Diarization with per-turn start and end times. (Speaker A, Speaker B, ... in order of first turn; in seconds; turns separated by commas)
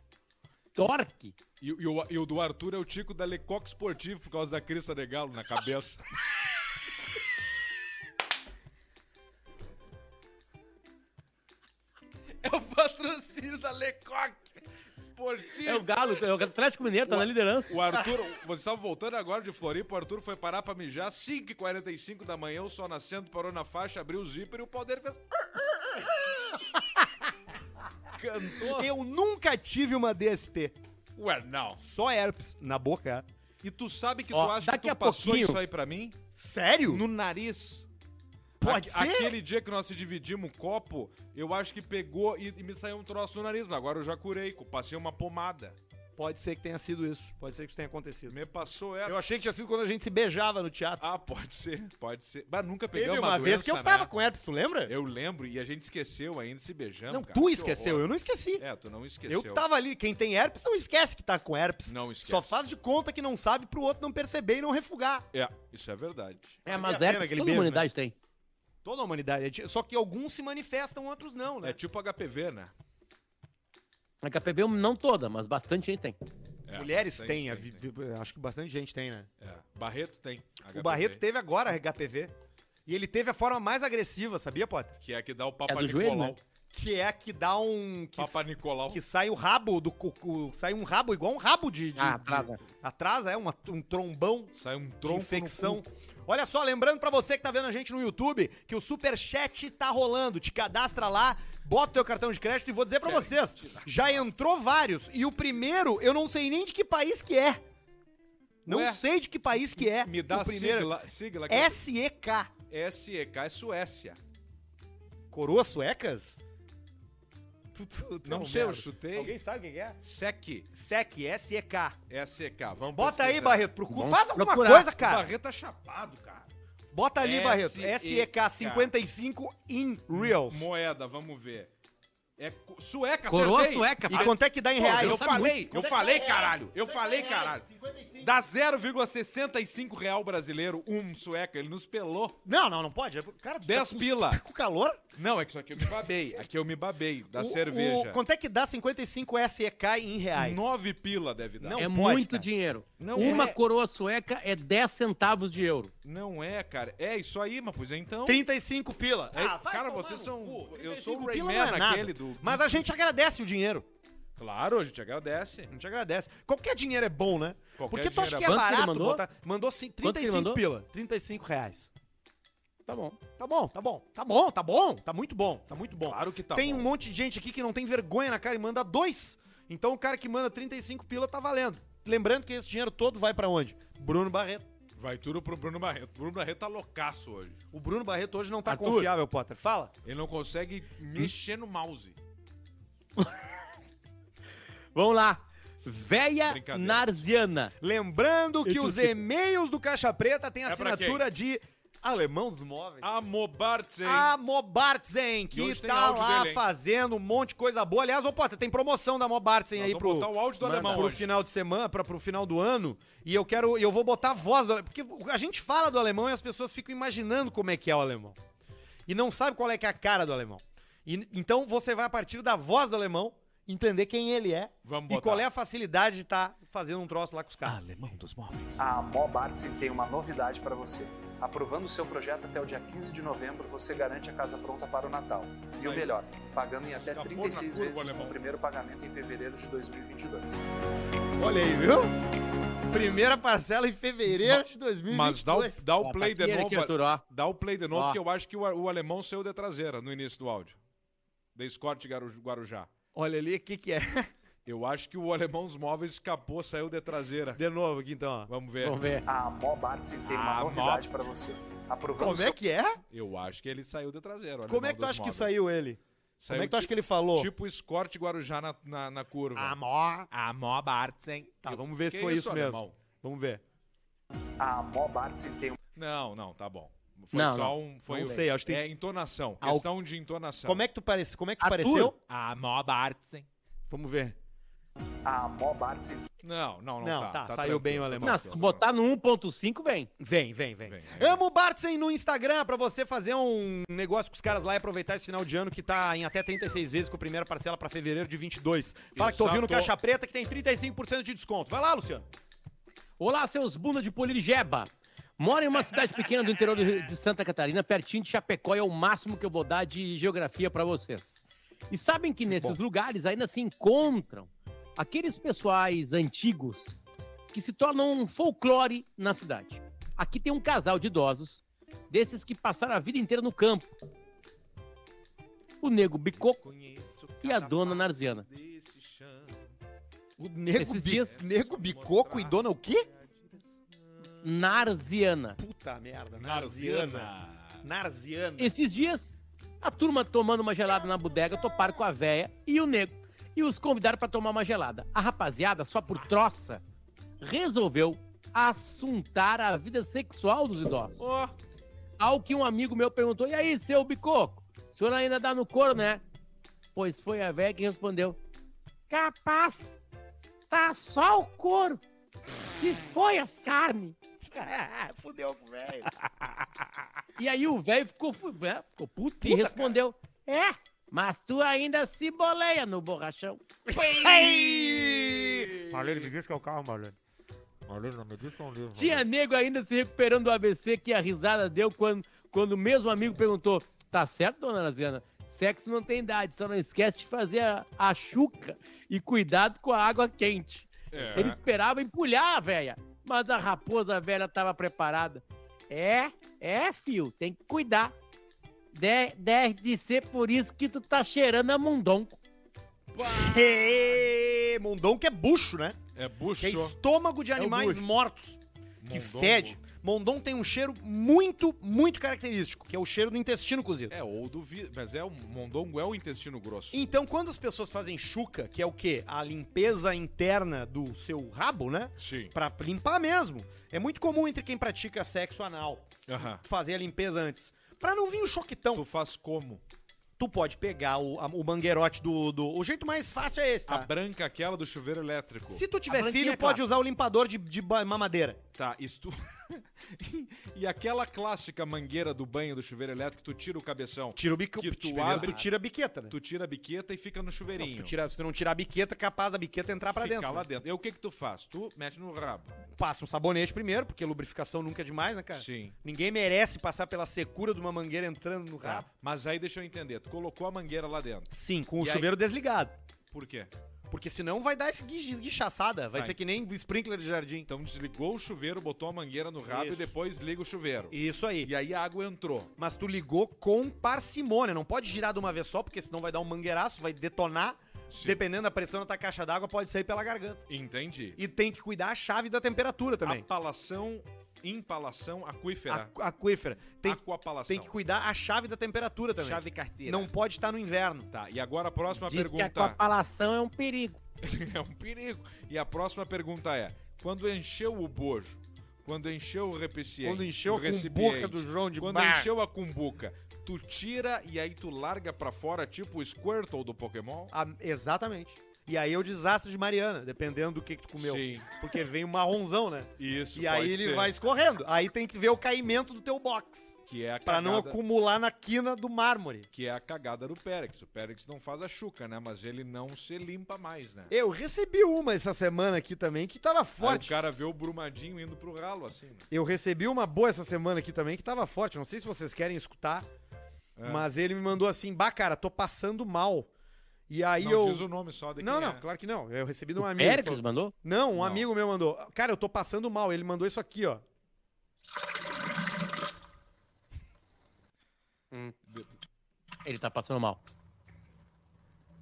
Speaker A: 0.8-1.4, Speaker B: 1.6-6.0, Speaker B: 12.4-16.2, Speaker A: 15.7-17.8, Speaker B: 17.1-25.2, Speaker B: 28.1-28.9, Speaker C: 28.6-30.8, Speaker B: 31.2-31.8, Speaker C: 31.8-33.2, Speaker B: 33.6-36.2, Speaker A: 34.3-35.6, Speaker C: 36.3-37.0, Speaker B: 36.9-37.9, Speaker B: 38.6-45.8, Speaker C: 38.6-39.4, Speaker C: 46.2-48.4, Speaker B: 48.3-49.4, Speaker C: 49.0-51.1, Speaker B: 51.0-54.1, Speaker C: 52.9-54.9, Speaker B: 54.9-59.7, Speaker C: 57.1-58.6, Speaker C: 59.3-65.3, Speaker B: 61.9-62.6, Speaker B: 65.3-66.6, Speaker C: 66.7-67.9, Speaker A: 66.7-68.2, Speaker C: 68.8-71.8, Speaker B: 71.6-72.7, Speaker A: 74.2-76.2, Speaker B: 76.7-77.8, Speaker C: 76.8-79.3, Speaker B: 79.4-81.2, Speaker C: 80.7-82.3, Speaker C: 82.9-85.0, Speaker B: 85.0-86.4, Speaker A: 85.7-86.4, Speaker C: 86.7-107.6, Speaker B: 88.2-89.0, Speaker A: 92.0-92.6, Speaker B: 94.5-95.8, Speaker B: 103.0-104.3, Speaker C: 108.7-111.0, Speaker B: 108.7-109.0, Speaker B: 109.8-111.8, Speaker C: 111.5-112.5, Speaker B: 112.7-114.2, Speaker C: 115.3-116.4, Speaker C: 117.7-120.0, Speaker B: 118.2-119.4, Speaker B: 120.0-121.0, Speaker C: 120.7-122.0, Speaker B: 122.1-123.7, Speaker C: 122.9-125.3, Speaker A: 123.9-124.9, Speaker B: 125.0-126.5, Speaker C: 126.9-130.7, Speaker B: 127.2-128.9, Speaker B: 130.1-131.7, Speaker B: 132.4-137.7, Speaker A: 133.3-135.5, Speaker C: 134.1-138.3, Speaker B: 138.2-142.4, Speaker C: 142.4-145.0, Speaker B: 143.6-144.4, Speaker B: 145.2-148.2, Speaker C: 147.3-150.7, Speaker B: 150.3-151.9, Speaker C: 151.6-152.5, Speaker A: 151.8-155.9, Speaker B: 153.0-153.6, Speaker C: 153.2-153.6, Speaker B: 156.0-158.4, Speaker C: 158.3-163.9, Speaker B: 159.3-162.8, Speaker B: 164.4-165.7, Speaker C: 165.7-171.9, Speaker B: 167.8-168.6, Speaker A: 168.4-169.2, Speaker A: 170.0-170.6, Speaker A: 172.9-173.2, Speaker C: 173.4-184.7, Speaker B: 176.0-176.9, Speaker B: 185.0-187.6, Speaker C: 187.7-189.9, Speaker A: 188.7-189.1, Speaker B: 190.0-192.2, Speaker A: 193.2-193.5, Speaker A: 194.9-197.7, Speaker B: 196.5-197.1, Speaker C: 197.8-203.1, Speaker A: 198.7-199.2, Speaker B: 200.7-201.2, Speaker B: 203.0-204.3, Speaker C: 204.0-218.4, Speaker B: 205.5-206.7, Speaker B: 209.8-211.3, Speaker A: 210.6-211.1, Speaker C: 219.1-227.8, Speaker B: 224.8-225.5, Speaker B: 227.6-228.8, Speaker D: 228.8-240.7, Speaker B: 235.7-236.1, Speaker B: 236.9-238.4, Speaker C: 241.4-242.1, Speaker C: 242.9-245.8, Speaker B: 244.4-250.8, Speaker A: 246.0-247.2, Speaker A: 247.9-248.2, Speaker B: 251.6-252.9, Speaker C: 253.2-254.3, Speaker B: 254.7-257.6, Speaker C: 257.6-258.5, Speaker B: 258.5-259.0, Speaker A: 258.8-259.2, Speaker D: 259.3-262.6, Speaker B: 260.3-261.1, Speaker C: 262.2-263.0, Speaker B: 263.1-265.5, Speaker C: 264.7-267.5, Speaker B: 266.4-269.8, Speaker C: 269.6-270.3, Speaker B: 270.3-273.0, Speaker C: 271.6-273.6, Speaker D: 274.6-275.8, Speaker B: 275.9-280.8, Speaker A: 277.3-278.4, Speaker C: 278.1-278.9, Speaker C: 279.6-279.9, Speaker C: 280.6-282.2, Speaker A: 281.6-282.1, Speaker B: 282.3-283.5, Speaker C: 283.9-284.4, Speaker D: 285.2-286.3, Speaker B: 286.4-288.9, Speaker C: 287.0-288.5, Speaker A: 288.2-290.1, Speaker C: 290.2-302.3, Speaker B: 290.9-291.4, Speaker B: 299.1-299.9, Speaker A: 303.2-317.0, Speaker C: 312.5-312.8, Speaker A: 317.5-323.9, Speaker A: 325.8-326.6, Speaker B: 326.4-329.7, Speaker A: 327.4-328.5, Speaker C: 330.4-333.1, Speaker A: 330.8-331.3, Speaker B: 331.1-334.6, Speaker A: 334.4-335.6, Speaker C: 335.6-338.7, Speaker B: 336.4-337.8, Speaker A: 338.6-346.8, Speaker A: 347.4-351.2, Speaker B: 351.2-351.5, Speaker A: 352.2-356.2, Speaker A: 356.9-358.4, Speaker A: 359.1-360.0, Speaker A: 360.7-362.0, Speaker A: 362.8-364.2, Speaker C: 364.4-366.1, Speaker A: 367.4-373.6, Speaker C: 369.4-370.0, Speaker C: 373.9-377.0, Speaker B: 373.9-376.4, Speaker B: 377.9-379.2, Speaker A: 378.9-398.1, Speaker B: 391.1-391.6, Speaker C: 391.2-391.5, Speaker A: 398.9-402.4, Speaker B: 403.1-404.2, Speaker C: 403.2-406.0, Speaker B: 406.1-407.0, Speaker C: 406.6-408.6, Speaker A: 407.6-408.0, Speaker B: 409.0-409.8, Speaker C: 409.1-414.1, Speaker B: 414.1-417.0, Speaker C: 416.9-429.1, Speaker B: 422.2-422.5, Speaker B: 426.3-426.6, Speaker B: 428.9-429.8, Speaker C: 430.4-434.1, Speaker B: 433.9-435.8, Speaker C: 435.7-438.6, Speaker A: 436.1-436.8, Speaker B: 438.8-445.7, Speaker C: 444.4-446.4, Speaker A: 445.3-445.6, Speaker B: 446.3-448.1, Speaker C: 447.8-450.7, Speaker B: 450.1-452.8, Speaker C: 452.9-459.1, Speaker B: 455.5-456.0, Speaker B: 458.8-462.3, Speaker C: 461.5-462.9, Speaker B: 463.3-463.7, Speaker C: 464.1-467.7, Speaker B: 467.7-472.7, Speaker C: 469.7-470.1, Speaker C: 471.1-471.7, Speaker C: 472.8-480.6, Speaker B: 478.1-478.4, Speaker B: 480.7-481.4, Speaker C: 481.4-483.5, Speaker B: 483.2-486.1, Speaker C: 485.9-491.3, Speaker B: 487.0-487.9, Speaker B: 489.4-490.3, Speaker B: 491.3-493.0, Speaker A: 492.2-494.2, Speaker B: 494.4-507.5, Speaker C: 500.2-502.5, Speaker C: 507.5-519.7, Speaker B: 511.2-511.7, Speaker B: 513.2-514.3, Speaker B: 517.1-518.0, Speaker B: 519.7-524.3, Speaker C: 524.3-527.3, Speaker B: 527.0-529.5, Speaker C: 529.5-533.3, Speaker B: 534.0-534.3, Speaker C: 534.0-536.7, Speaker C: 537.3-544.2, Speaker B: 537.6-539.0, Speaker A: 540.0-540.9, Speaker B: 541.4-541.7, Speaker A: 548.5-548.8, Speaker B: 548.9-549.1, Speaker A: 549.9-550.6